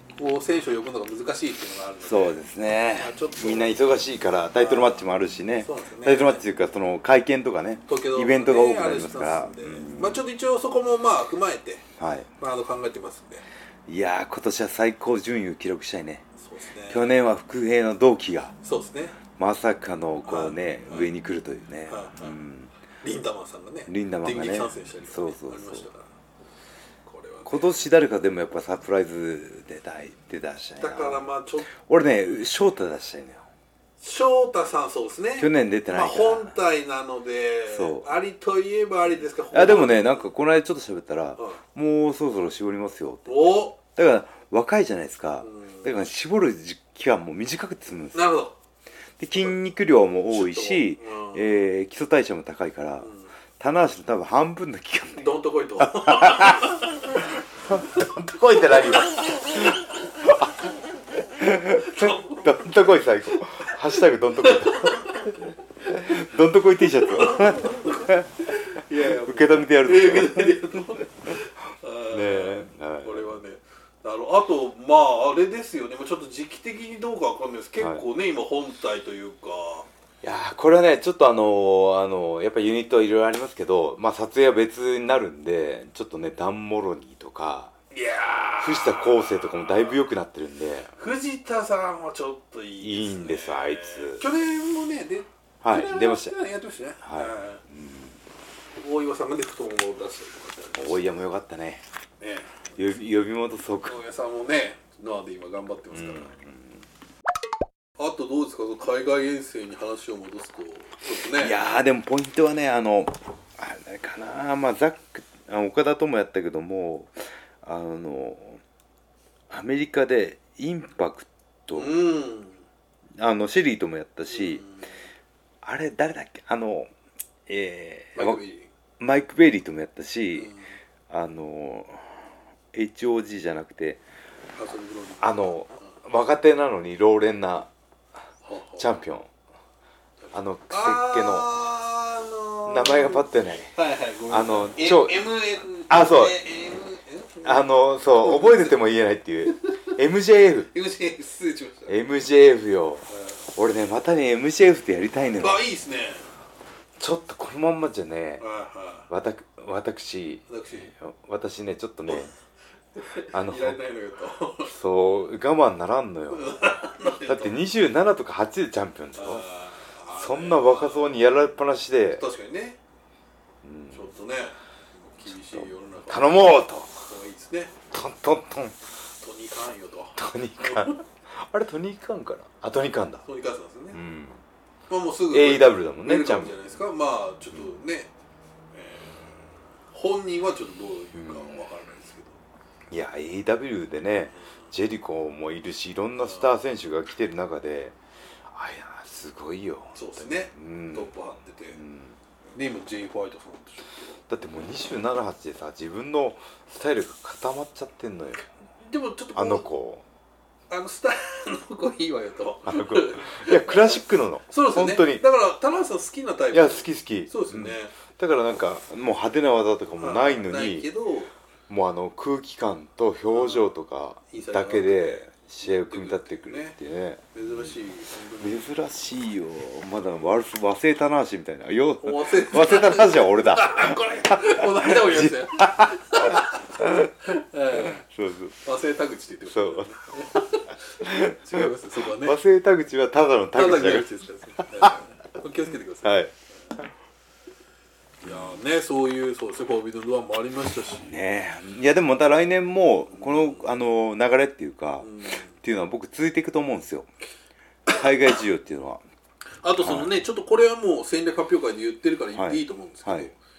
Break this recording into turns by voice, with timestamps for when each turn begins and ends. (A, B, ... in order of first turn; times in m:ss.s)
0:00.2-0:03.8 A
0:02.0-0:10.2 B
0:04.6-0:06.4 A
0:07.9-0:11.9 A
0:12.0-0:12.3 B
0:12.4-0:13.4 A
0:13.9-0:16.2 B
0:16.4-0:17.2 A
0:16.9-0:18.5 B
0:18.6-0:19.2 A
0:19.3-0:22.7 B
0:20.2-0:21.1 A
0:21.9-0:22.4 A
0:23.0-0:26.1 A
0:23.9-0:25.9 B
0:27.0-0:27.8 A
0:27.4-0:33.5 B
0:30.8-0:31.7 A
0:34.0-0:40.3 A
0:35.4-0:36.5 B
0:37.7-0:38.1 B
0:39.5-0:48.2 B
0:43.3-0:43.8 A
0:45.4-0:45.9 A
0:48.1-0:48.6 A
0:49.2-0:56.8 B
0:50.3-0:51.4 A
0:53.0-0:53.3 A
0:55.2-0:57.2 A
0:57.7-1:00.5 B
0:57.8-0:59.7 A
1:01.4-1:08.3 B
1:01.8-1:03.0 A
1:04.4-1:05.3 A
1:06.9-1:19.9 A
1:09.0-1:11.3 B
1:12.1-1:13.3 B
1:20.2-1:27.7 B
1:27.9-1:30.0 A
1:28.6-1:30.9 B
1:31.0-1:37.6 A
1:32.8-1:34.3 B
1:35.6-1:36.3 B
1:37.0-1:38.2 B
1:38.7-1:41.1 A
1:40.8-1:41.8 B
1:42.2-1:42.6 A
1:42.8-1:44.0 B
1:43.8-1:46.3 A
1:45.9-1:46.8 B
1:48.0-1:51.6 A
1:51.3-1:58.6 B
1:59.5-2:02.0 B
2:01.7-2:02.6 A
2:03.2-2:04.6 B
2:04.3-2:04.9 A
2:05.6-2:06.9 B
2:07.5-2:08.4 B
2:08.1-2:08.7 A
2:09.0-2:10.5 B
2:10.4-2:10.7 A
2:11.1-2:14.0 B
2:14.6-2:15.9 A
2:15.2-2:17.7 B
2:18.4-2:18.9 A
2:18.8-2:19.3 B
2:20.2-2:28.8 A
2:20.3-2:21.5 B
2:22.7-2:23.7 B
2:24.3-2:25.3 B
2:25.9-2:26.5 B
2:27.4-2:30.7 B
2:29.5-2:29.7 A
2:30.7-2:32.0 A
2:31.9-2:35.6 B
2:33.1-2:33.4 A
2:35.4-2:36.3 A
2:37.0-2:38.4 B
2:38.4-2:39.1 A
2:39.1-2:42.3 B
2:40.5-2:40.9 A
2:42.9-2:44.7 A
2:43.3-2:43.8 B
2:44.7-2:49.4 B
2:46.3-2:47.6 A
2:49.2-2:51.2 A
2:50.1-2:52.2 B
2:52.1-2:52.8 A
2:53.6-2:54.0 B
2:53.9-2:56.4 A
2:55.2-2:56.9 B
2:57.0-2:57.7 A
2:57.9-2:58.8 B
2:59.2-3:01.0 A
3:00.1-3:03.2 B
3:03.2-3:04.0 A
3:03.9-3:04.4 B
3:04.9-3:08.1 A
3:05.3-3:06.5 B
3:08.7-3:12.4 A
3:11.1-3:11.6 B
3:12.9-3:18.0 B
3:14.3-3:14.7 A
3:16.2-3:16.5 A
3:18.5-3:21.1 B
3:19.9-3:21.8 A
3:21.7-3:22.2 B
3:22.5-3:24.2 A
3:24.3-3:28.5 B
3:28.8-3:29.7 A
3:29.3-3:30.0 B
3:30.7-3:37.9 A
3:32.6-3:35.2 B
3:36.5-3:40.9 B
3:40.0-3:41.3 A
3:41.7-3:47.8 B
3:43.3-3:43.6 A
3:44.3-3:46.8 A
3:47.3-3:48.7 A
3:48.4-3:58.6 B
3:52.0-3:58.0 A
3:58.6-4:02.4 A
3:59.5-3:59.9 B
4:01.0-4:04.1 B
4:03.5-4:06.2 A
4:06.0-4:06.3 B
4:08.2-4:11.1 A
4:08.2-4:08.5 B
4:11.0-4:17.1 B
4:13.1-4:13.6 A
4:15.0-4:15.5 A
4:17.9-4:19.0 B
4:19.6-4:23.4 A
4:19.8-4:20.1 B
4:22.3-4:23.3 B